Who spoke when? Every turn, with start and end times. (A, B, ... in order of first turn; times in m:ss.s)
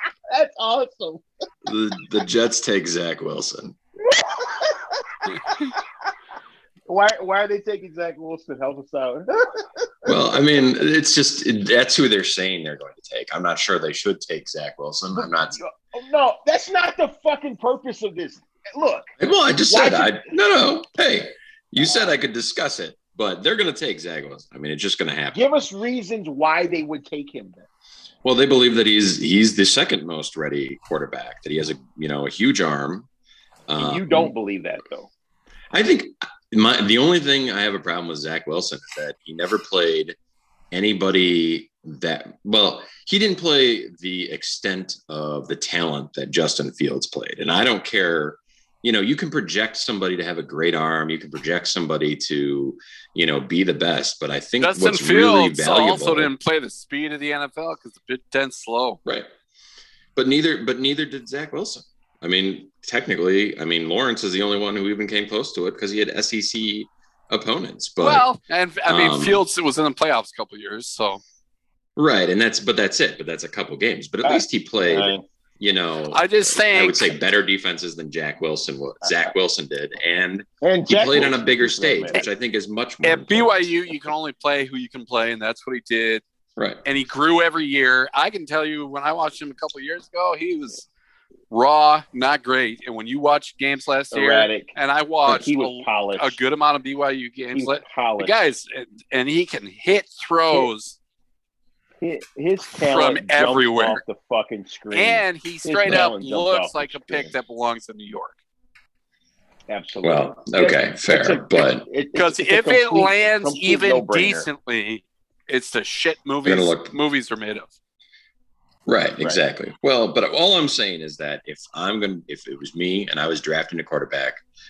0:00.3-0:01.2 A
0:01.7-0:03.8 B
0:04.0-0:05.8 A
0:06.9-0:10.4 A
0:10.1-0:15.6 B
0:15.2-0:19.1 A
0:19.2-0:25.4 B
0:19.7-0:20.3 A
0:21.8-0:22.1 A
0:25.3-0:27.7 A
0:28.2-0:33.1 B
0:33.7-0:34.3 B
0:33.8-0:35.1 A
0:35.7-0:40.2 B
0:40.7-0:56.3 B
0:54.6-0:59.0 C
1:00.2-1:08.3 B
1:08.0-1:11.2 C
1:08.9-1:09.4 B
1:12.0-1:23.7 B
1:14.2-1:15.2 A
1:16.1-1:17.2 C
1:19.0-1:19.3 A
1:20.6-1:22.3 A
1:23.0-1:26.2 C
1:26.6-1:26.8 B
1:26.8-1:30.9 C
1:31.5-1:41.0 C
1:34.1-1:34.7 A
1:35.3-1:36.4 A
1:37.5-1:38.4 A
1:42.0-1:47.3 A
1:42.8-1:44.0 C
1:44.9-1:48.4 C
1:49.7-1:54.5 A
1:50.0-1:51.9 B
1:52.2-1:57.7 C
1:56.4-1:57.0 B
1:58.9-2:04.4 B